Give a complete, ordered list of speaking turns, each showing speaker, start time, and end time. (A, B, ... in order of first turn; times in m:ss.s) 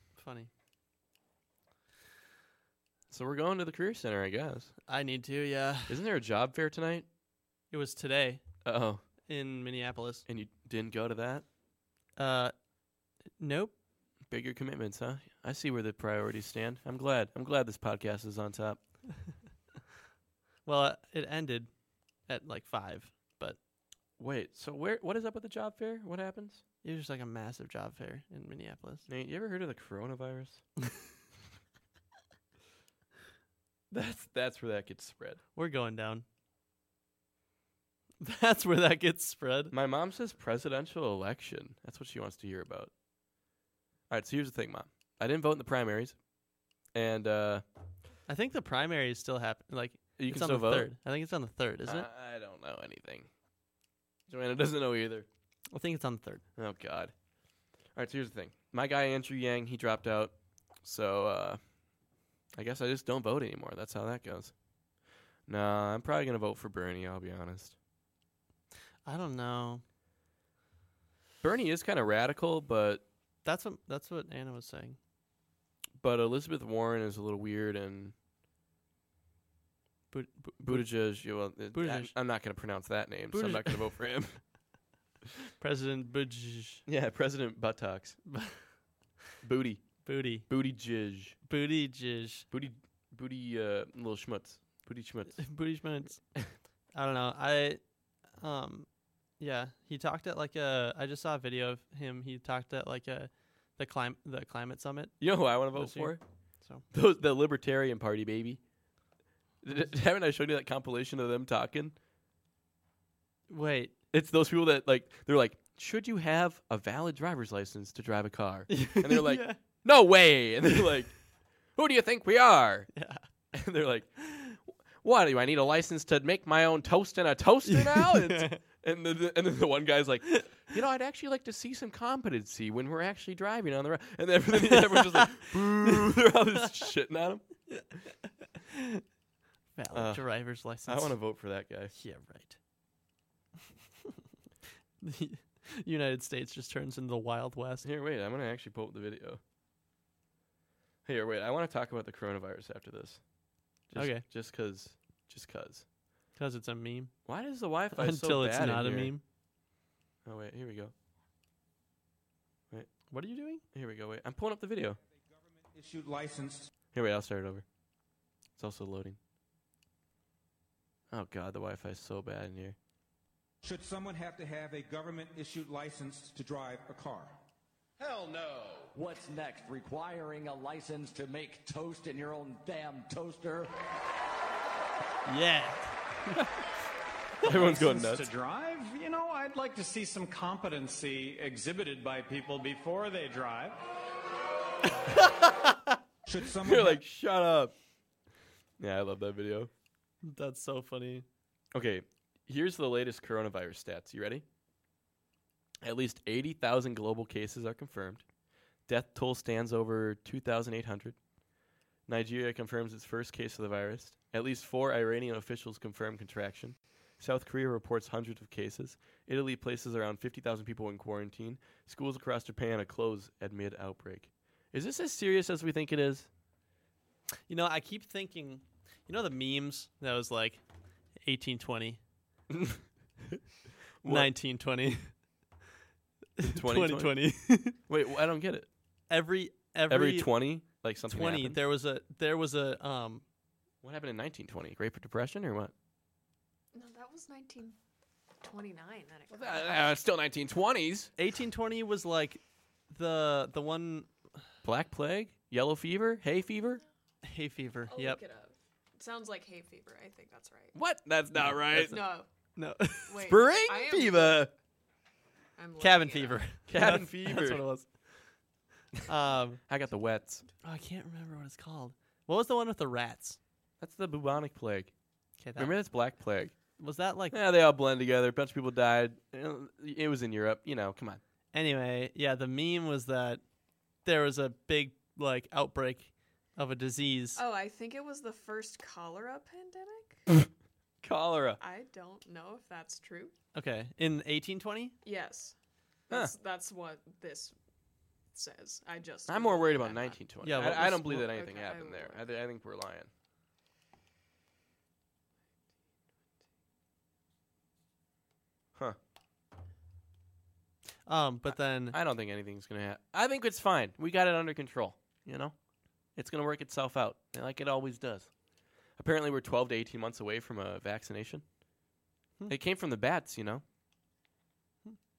0:00.2-0:00.5 A
0:03.1-0:04.7 B
0:04.9-0:06.0 A
0:05.9-0:07.0 B
0:07.7-0:08.4 A
0:08.6-0:09.0 B
0:09.2-0:10.2 A
0:10.2-0:11.4 B
0:12.2-0:12.5 A
0:13.4-0:13.7 A
0:14.3-0:18.8 B
0:20.6-0:21.7 A
0:22.2-0:23.6 A
0:24.2-0:26.6 B
0:26.8-0:29.0 A
0:29.1-0:30.6 B
0:33.9-0:35.4 B
0:35.5-0:36.2 A
0:38.2-0:39.7 A
0:39.7-0:42.9 B
0:44.1-0:46.2 B
0:46.9-0:47.6 B
0:48.3-0:52.1 A
0:50.2-0:50.9 B
0:51.8-0:53.3 B
0:54.3-0:55.3 B
0:55.7-0:56.4 A
0:56.6-0:57.1 B
0:57.9-1:01.6 B
1:02.5-1:04.5 B
1:05.5-1:07.7 B
1:09.0-1:09.8 A
1:11.4-1:13.0 B
1:13.4-1:15.0 A
1:16.0-1:18.1 B
1:20.1-1:21.0 A
1:20.6-1:24.4 B
1:21.7-1:22.1 A
1:23.3-1:23.9 A
1:25.6-1:26.8 A
1:26.8-1:28.2 B
1:28.3-1:28.6 A
1:29.4-1:31.4 B
1:30.0-1:30.5 A
1:31.4-1:32.5 A
1:32.5-1:35.4 B
1:35.4-1:36.2 A
1:36.9-1:37.8 A
1:38.4-1:38.9 A
1:39.4-1:45.2 A
1:45.2-1:46.2 B
1:45.7-1:46.8 A
1:46.9-1:48.6 B
1:49.6-1:52.0 B
1:53.5-1:53.9 A
1:54.1-2:01.2 B
1:58.7-1:59.6 A
2:01.7-2:02.9 B
2:02.9-2:03.2 A
2:03.5-2:17.4 B
2:07.6-2:08.6 A
2:14.7-2:15.9 A
2:18.6-2:19.0 A
2:19.8-2:21.2 A
2:19.9-2:20.3 B
2:20.8-2:21.9 B
2:21.9-2:22.6 A
2:25.0-2:27.8 A
2:27.8-2:29.4 B
2:31.0-2:33.2 B
2:33.9-2:35.8 B
2:33.9-2:34.2 A
2:36.4-2:37.1 A
2:37.2-2:39.1 B
2:37.9-2:39.2 A
2:40.2-2:40.9 B
2:43.1-2:43.6 A
2:43.7-2:45.0 B
2:45.2-2:46.7 C
2:46.9-2:47.6 B
2:48.6-2:49.2 B
2:51.1-2:52.8 B
2:53.6-2:57.4 C
2:58.0-2:58.9 D
2:58.9-3:03.7 E
3:05.2-3:06.4 A
3:07.4-3:08.3 B
3:07.4-3:13.8 D
3:15.1-3:16.0 A
3:16.3-3:17.0 C
3:16.6-3:17.7 B
3:18.8-3:19.7 B
3:20.2-3:21.2 A
3:21.7-3:24.4 B
3:25.8-3:28.2 B
3:28.9-3:31.2 B
3:32.1-3:46.3 B
3:47.5-3:50.6 A
3:51.2-3:52.0 A
3:52.5-3:53.4 B
3:54.0-3:54.3 B
3:54.0-3:55.1 A
3:56.4-3:57.8 A
3:56.4-3:58.7 B
3:59.1-4:00.3 A
3:59.9-4:01.6 B
4:01.1-4:03.2 A
4:03.8-4:05.7 B
4:06.7-4:07.8 F
4:08.4-4:09.8 F
4:09.3-4:11.1 B
4:11.2-4:14.1 A
4:14.6-4:16.8 B
4:17.2-4:18.2 A
4:17.9-4:20.8 F
4:20.7-4:22.0 B
4:21.7-4:22.0 A
4:21.7-4:22.3 F
4:22.6-4:23.2 A
4:23.1-4:24.5 F
4:23.2-4:24.5 B
4:25.6-4:26.5 F
4:25.8-4:27.9 A
4:26.7-4:27.6 B
4:29.0-4:29.6 A
4:29.7-4:30.4 B
4:30.6-4:33.4 A
4:33.8-4:34.9 B
4:35.4-4:35.8 A
4:35.6-4:36.6 B
4:36.8-4:37.4 A
4:37.3-4:41.2 B
4:41.5-4:43.4 A
4:44.0-4:47.4 A
4:47.4-4:50.3 F
4:51.0-4:51.6 B
4:51.6-4:53.3 F
4:53.5-4:54.9 A
4:55.0-4:55.6 F
4:56.1-4:57.5 F
4:58.3-5:02.2 F
4:59.3-5:03.1 B
5:00.4-5:01.3 A
5:11.0-5:12.0 A
5:11.9-5:15.5 B
5:16.2-5:18.3 B
5:19.0-5:21.4 B
5:22.5-5:23.6 B